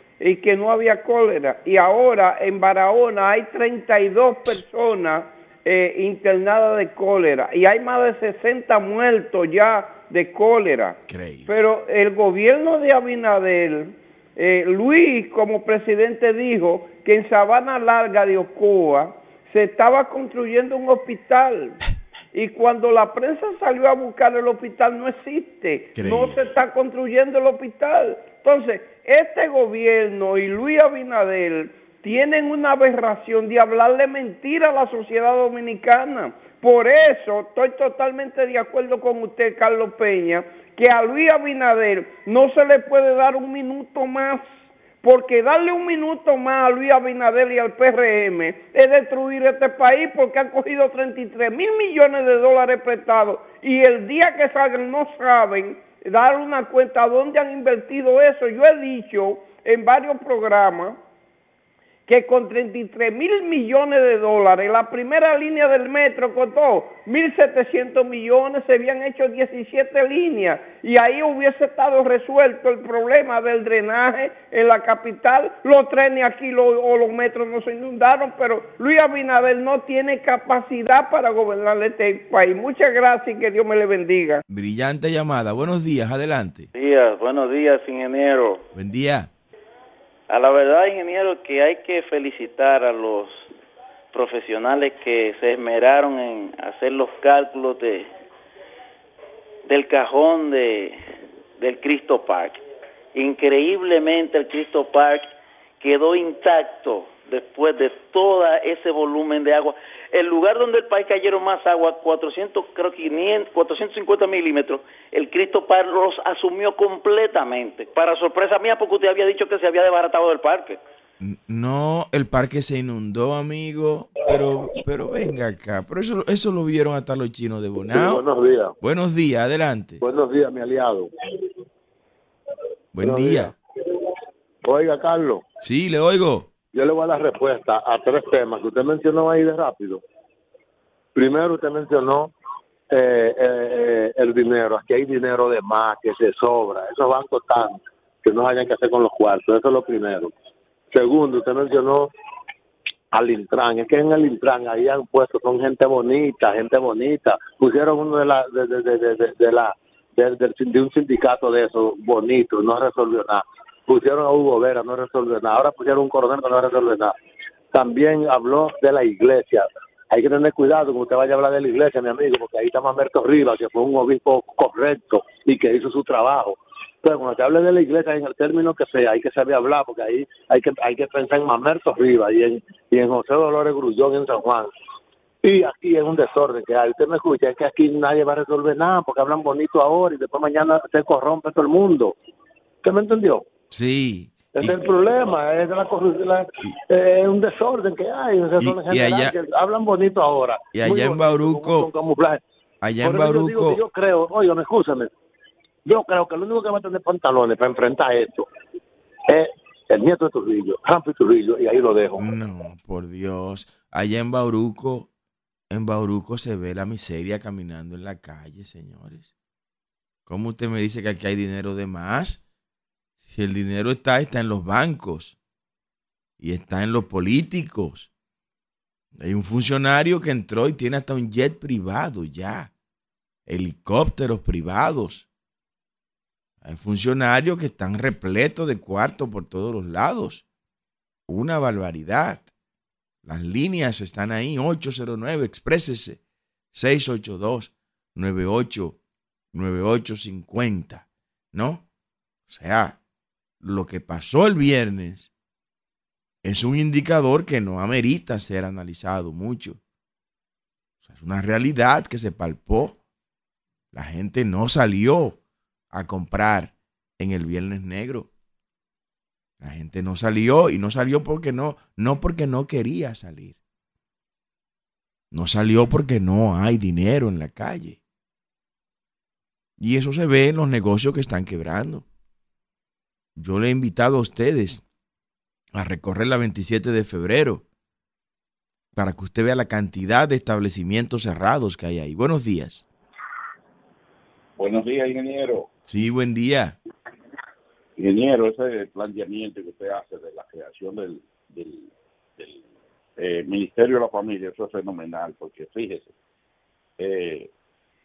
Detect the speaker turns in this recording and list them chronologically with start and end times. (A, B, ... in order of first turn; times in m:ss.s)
0:00.2-0:21.8 A
0:11.1-0:11.5 B
0:22.3-0:44.4 A
0:25.9-0:26.4 B
0:45.0-1:01.0 A
1:02.1-1:24.4 A
1:24.5-1:26.7 B
1:26.7-1:28.6 C
1:28.7-1:29.3 B
1:30.3-1:33.5 C
1:34.1-1:38.1 C
1:39.7-1:41.0 C
1:41.6-1:42.6 C
1:43.1-1:45.3 C
1:45.8-2:00.8 C
2:01.2-2:08.2 B
2:07.9-2:08.7 D
2:08.8-2:10.0 B
2:10.0-2:11.5 D
2:12.9-2:13.5 B
2:13.0-2:14.0 D
2:14.6-2:15.4 D
2:15.6-2:16.5 B
2:16.7-2:20.0 D
2:21.1-2:22.3 D
2:22.9-2:30.3 D
2:30.9-2:32.1 D
2:33.1-2:47.1 D
2:47.7-3:04.7 D
3:05.4-3:12.1 D
3:12.8-3:13.4 D
3:13.7-3:14.9 B
3:14.6-3:22.4 D
3:18.6-3:19.3 B
3:20.7-3:21.9 B
3:22.8-3:23.8 B
3:23.0-3:25.1 D
3:25.8-3:28.5 D
3:29.3-3:32.2 D
3:32.2-3:35.1 B
3:35.7-3:39.3 B
3:40.3-3:42.4 B
3:43.3-3:45.4 B
3:46.4-3:48.1 B
3:49.2-3:52.7 B
3:53.5-3:55.2 B
3:56.6-4:00.4 B
4:01.3-4:02.5 B
4:03.2-4:06.2 B
4:06.7-4:09.0 B
4:09.5-4:11.8 B
4:12.5-4:13.0 B
4:13.6-4:15.3 B
4:16.4-4:19.8 B
4:21.0-4:23.0 B
4:23.9-4:25.4 B
4:25.9-4:28.3 B
4:29.6-4:33.6 B
4:35.3-4:38.0 B
4:39.8-4:42.0 B
4:43.4-4:44.8 B
4:45.7-4:47.6 B
4:48.9-4:52.8 B
4:54.6-4:55.7 E
4:55.8-4:56.8 B
4:58.0-5:02.6 E
5:03.2-5:06.1 E
5:07.0-5:07.5 E